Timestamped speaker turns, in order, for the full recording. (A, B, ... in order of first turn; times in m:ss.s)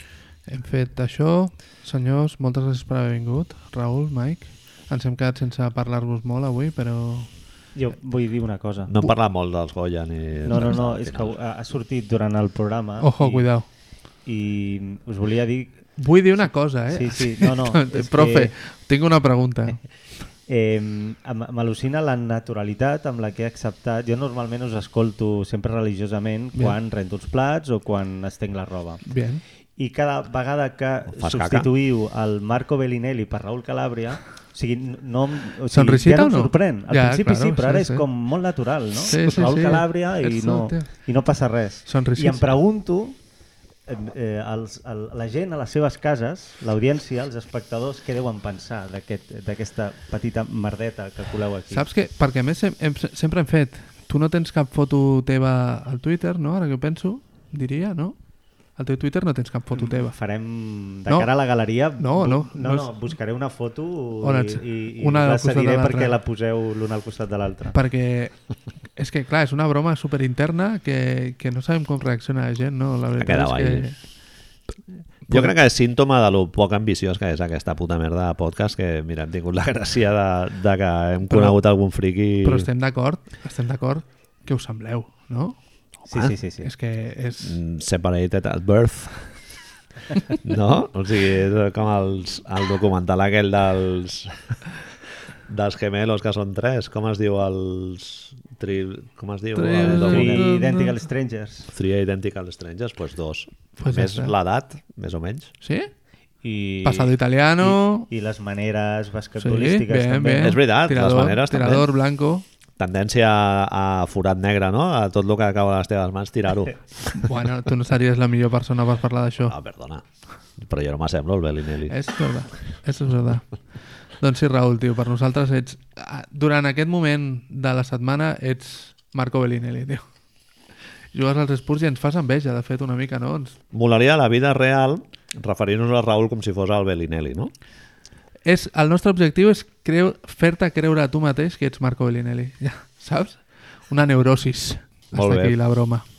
0:00.5-0:07.3 A
0:07.8-0:08.9 B
0:08.9-0:11.4 C
0:10.4-0:13.7 B
0:13.0-0:13.7 A
0:14.2-0:18.5 B
0:16.0-0:19.8 A
0:20.5-0:29.1 B
0:29.1-0:29.4 A
0:29.8-0:43.2 B
0:31.1-0:31.7 C
0:35.7-0:38.1 A
0:39.0-0:41.0 A
0:41.9-0:42.5 A
0:43.9-0:51.9 B
0:51.7-0:58.2 A
0:58.7-1:00.2 A
0:59.8-1:07.8 B
1:01.1-1:03.1 A
1:04.2-1:06.2 A
1:07.7-1:08.4 A
1:09.0-1:14.0 A
1:13.2-1:13.9 C
1:15.3-1:15.5 A
1:15.3-1:22.7 C
1:21.3-1:21.6 A
1:22.4-1:25.6 A
1:26.1-1:26.7 B
1:26.6-1:27.6 A
1:27.4-1:29.4 C
1:30.4-1:34.6 C
1:35.5-1:40.5 C
1:39.6-1:41.0 A
1:39.8-1:41.7 B
1:41.7-1:45.5 C
1:43.8-1:44.3 A
1:45.6-1:45.9 A
1:46.4-1:50.5 B
1:46.8-1:48.1 A
1:49.4-1:52.4 A
1:50.4-1:51.9 C
1:52.8-1:57.3 C
1:57.2-1:59.5 A
1:59.4-2:00.0 C
2:00.6-2:01.9 C
2:01.9-2:03.5 A
2:04.2-2:10.1 A
2:11.1-2:13.6 A
2:13.7-2:17.5 C
2:18.4-2:26.0 A
2:25.1-2:25.6 C